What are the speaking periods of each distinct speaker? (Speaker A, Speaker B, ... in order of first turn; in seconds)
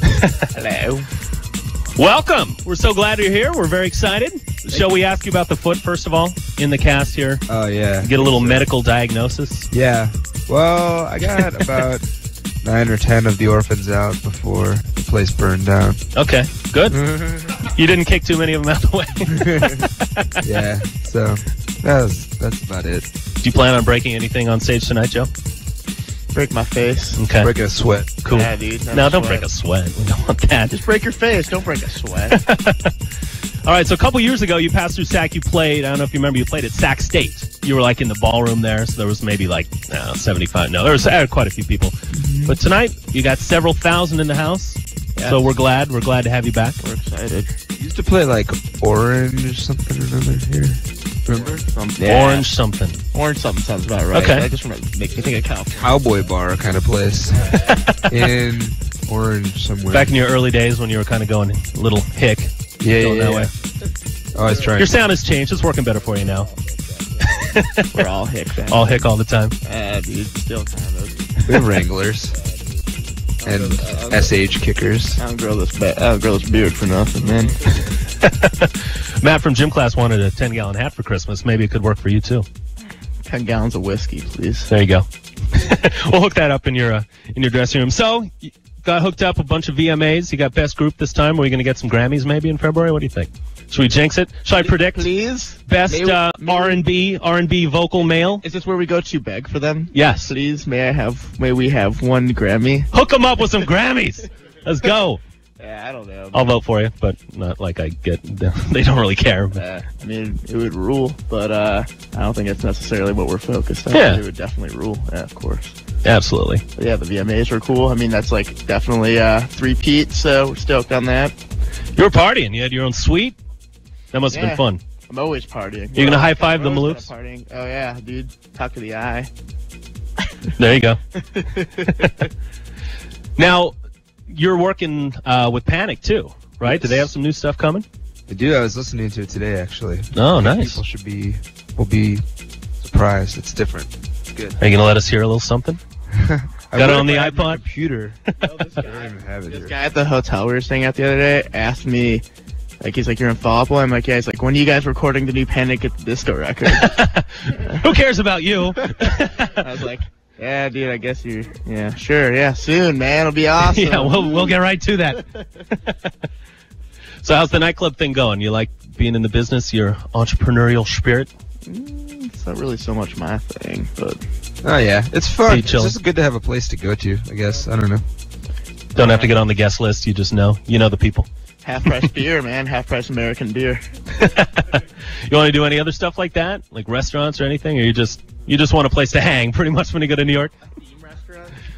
Speaker A: 0.5-1.1, 26.3-27.2, 28.3-29.5, 30.7-32.4, 45.2-45.5, 46.8-47.5, 51.3-52.5, 53.1-56.0, 66.5-66.9, 67.9-69.1, 69.6-71.7, 73.4-74.4, 75.2-77.6, 83.2-84.7, 94.5-96.8, 98.4-102.9, 105.6-106.5, 109.5-115.8, 116.8-121.3, 124.3-129.3, 131.3-131.8, 136.7-137.1, 148.4-152.2, 152.8-156.9, 159.5-164.6, 171.7-174.2, 179.0-179.4, 181.6-183.8, 190.7-191.6
Speaker B: 1.9-7.4, 8.0-9.7, 11.3-11.8, 16.1-17.0, 17.5-20.4, 23.4-25.3, 27.1-27.5, 28.2-30.8, 32.3-32.9, 33.6-46.8, 52.0-53.0, 54.1-54.5, 57.5-58.1, 59.9-63.5, 64.7-66.5, 67.2-68.0, 68.7-69.5, 78.2-82.5, 84.7-95.1, 95.7-98.4, 99.9-100.3, 102.9-105.2, 106.3-109.6, 113.9-114.2, 116.0-116.6, 122.0-123.4, 124.1-124.8, 125.9-127.1, 130.5-131.0, 131.6-132.2, 133.4-133.7, 134.3-137.8, 140.1-140.8, 144.6-145.8, 146.7-147.6, 156.7-159.6, 163.6-166.1, 167.2-171.3, 175.4-175.9, 178.9-181.3, 184.1-190.5
Speaker C: 7.5-8.7, 9.7-12.1, 12.6-16.0, 16.9-17.5, 19.3-19.9, 20.4-23.1, 27.4-28.2, 47.8-51.6, 54.1-54.4, 55.8-57.5, 58.1-60.1, 62.8-63.5, 64.3-64.9, 71.4-72.3, 73.4-75.2, 138.3-142.2, 142.8-144.6, 146.1-148.2, 148.8-149.7, 174.6-178.0